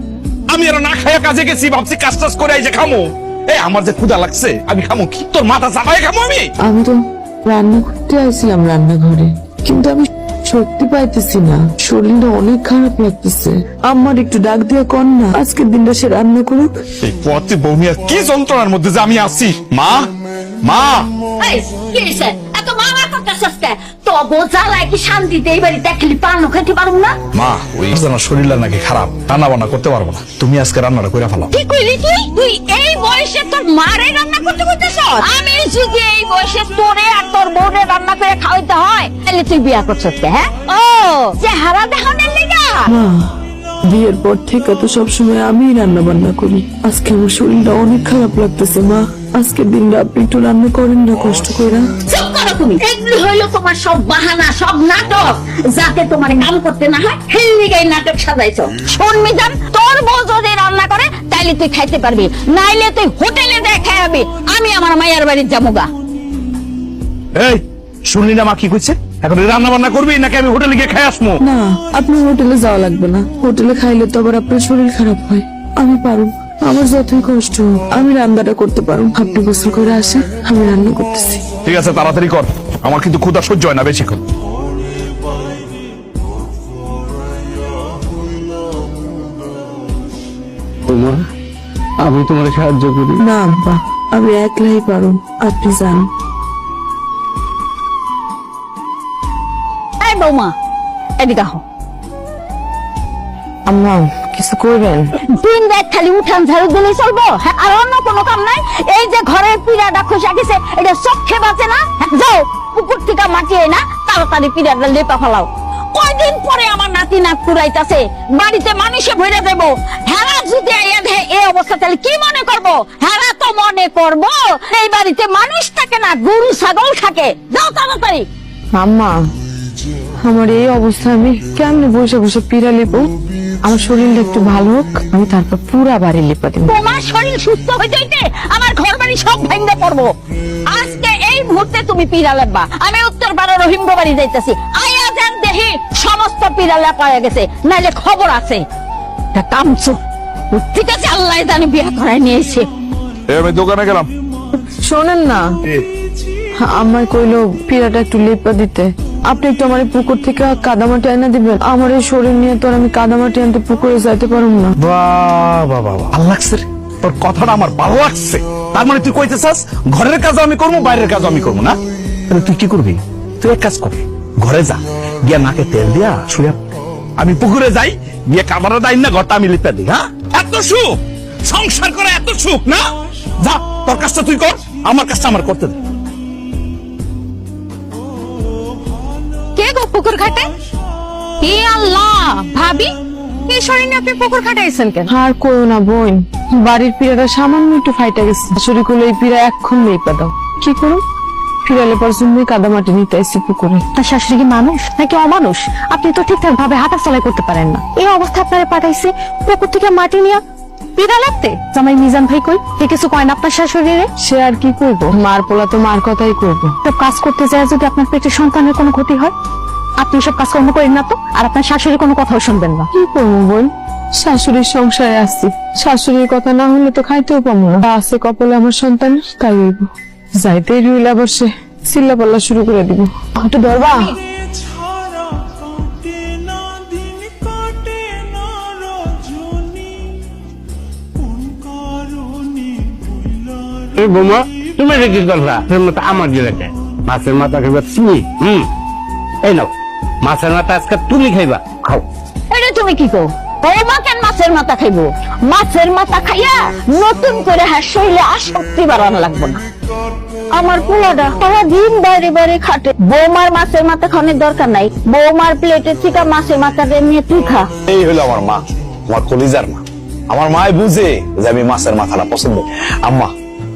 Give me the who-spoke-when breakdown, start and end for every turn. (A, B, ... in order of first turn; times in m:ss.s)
0:00.5-0:06.5 A
0:06.6-0:16.7 B
0:17.0-0:20.1 A
0:20.6-0:21.1 A
0:21.4-0:27.1 C
0:27.3-0:31.5 A
0:31.5-0:42.9 C
0:42.9-0:43.3 B
0:43.8-0:51.9 B
0:52.0-1:05.9 C
1:07.3-1:11.4 A
1:11.5-1:21.4 B
1:21.6-1:24.2 A
1:30.9-1:31.2 D
1:32.0-1:33.2 D
1:33.2-1:36.1 B
1:40.0-1:40.5 C
1:41.2-1:41.6 C
1:43.7-1:45.1 B
1:45.3-2:08.2 C
2:08.7-2:09.2 B
2:10.2-2:13.1 B
2:13.6-2:16.7 B
2:16.6-2:20.1 C
2:20.6-2:28.6 C
2:29.3-2:30.0 C
2:30.5-2:32.7 C
2:33.3-2:34.1 A
2:34.8-2:35.5 B
2:36.6-2:44.7 B
2:44.8-2:51.7 A
2:52.3-2:56.6 A
2:57.2-3:02.8 A
3:03.4-3:05.8 A
3:09.6-3:10.5 E
3:11.4-3:12.9 E
3:13.5-3:15.1 E
3:15.1-3:21.0 B
3:21.6-3:23.8 B
3:23.9-3:30.4 E
3:31.0-3:34.1 E
3:34.2-3:36.8 B
3:36.8-3:39.3 E
3:40.0-3:42.9 E
3:42.9-3:54.2 B
4:04.0-4:08.7 D
4:09.4-4:09.7 D
4:10.2-4:12.0 D
4:12.5-4:19.6 C
4:20.5-4:27.7 C
4:27.9-4:33.3 A